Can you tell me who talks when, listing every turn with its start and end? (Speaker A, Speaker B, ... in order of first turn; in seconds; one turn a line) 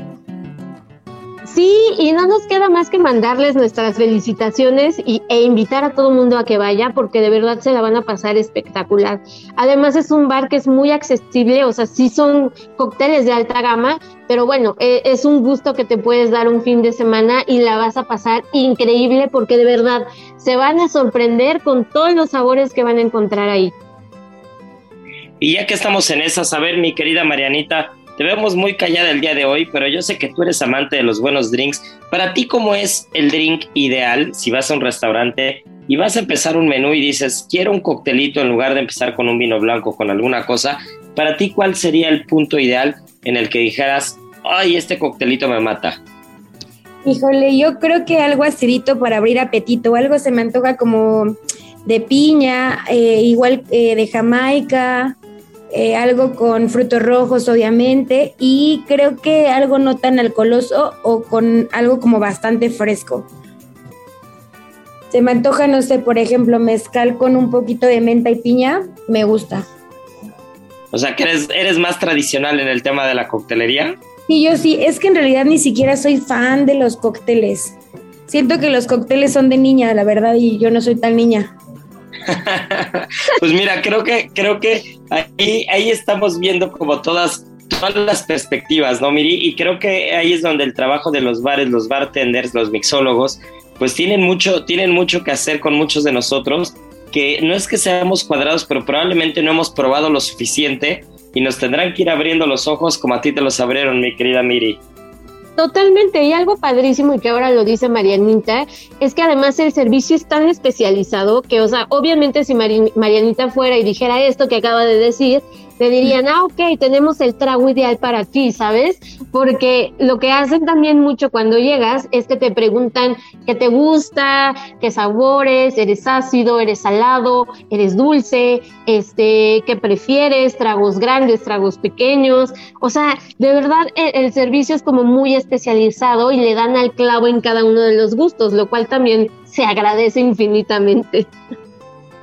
Speaker A: 1.5-23.8
Speaker B: 25.4-46.0
Speaker C: 47.0-55.2
Speaker C: 55.7-63.3
Speaker C: 65.1-69.7
Speaker B: 70.9-74.0
Speaker C: 74.3-77.8
Speaker C: 78.3-81.5
Speaker B: 82.3-104.8
Speaker A: 105.6-141.3